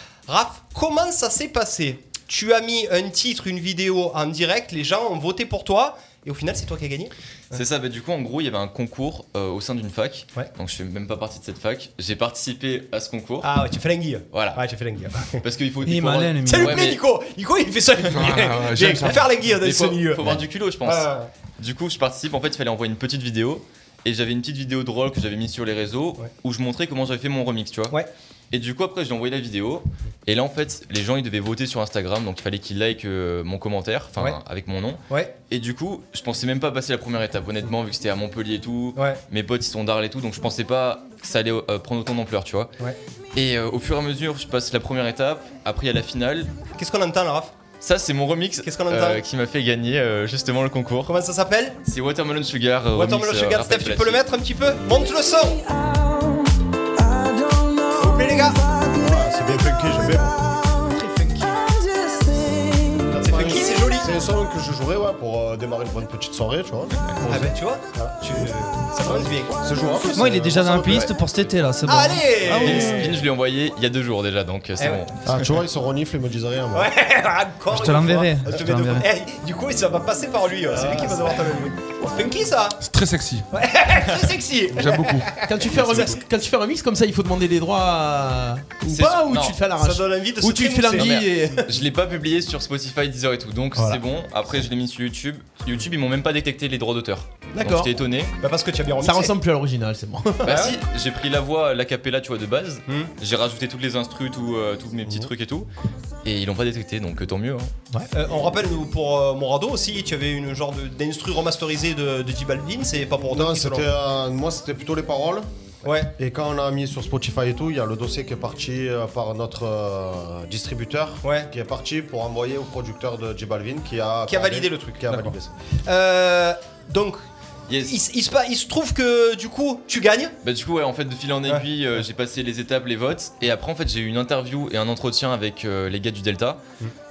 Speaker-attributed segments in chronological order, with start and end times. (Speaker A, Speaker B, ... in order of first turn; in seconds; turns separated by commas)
Speaker A: 0.3-7.6, Speaker B: 7.5-13.6, Speaker A: 13.4-15.4, Speaker B: 14.3-14.6, Speaker B: 15.4-17.0, Speaker C: 15.8-16.8, Speaker A: 16.5-21.3, Speaker D: 18.1-19.4, Speaker B: 19.6-28.0, Speaker B: 28.5-42.7, Speaker B: 43.3-46.5, Speaker A: 46.8-47.5, Speaker B: 47.8-51.1, Speaker A: 48.6-49.2, Speaker A: 51.1-51.8, Speaker B: 51.9-54.2, Speaker A: 52.9-55.6, Speaker A: 58.0-58.6, Speaker E: 58.9-60.8, Speaker C: 60.9-61.6, Speaker E: 62.7-68.5, Speaker A: 63.2-64.1, Speaker A: 67.3-69.6, Speaker E: 69.0-71.1, Speaker C: 70.2-73.1, Speaker A: 71.9-73.2, Speaker B: 72.5-75.3, Speaker E: 75.2-76.9, Speaker A: 76.7-82.8, Speaker C: 77.7-79.1, Speaker E: 80.7-81.4, Speaker D: 82.8-83.5, Speaker A: 83.5-86.2, Speaker D: 84.8-85.3, Speaker F: 85.4-91.7, Speaker B: 89.0-89.6, Speaker A: 89.7-91.2, Speaker B: 91.0-98.3, Speaker F: 97.5-97.9, Speaker A: 98.4-99.3, Speaker F: 99.0-100.6, Speaker B: 100.4-105.7, Speaker A: 100.5-100.8, Speaker B: 106.2-107.7, Speaker A: 108.1-113.9, Speaker E: 113.3-115.5, Speaker A: 115.8-116.1, Speaker E: 116.1-125.5, Speaker A: 121.2-121.5, Speaker A: 124.3-125.3, Speaker A: 125.8-127.2, Speaker B: 127.7-128.0, Speaker A: 127.9-130.3, Speaker B: 130.4-136.6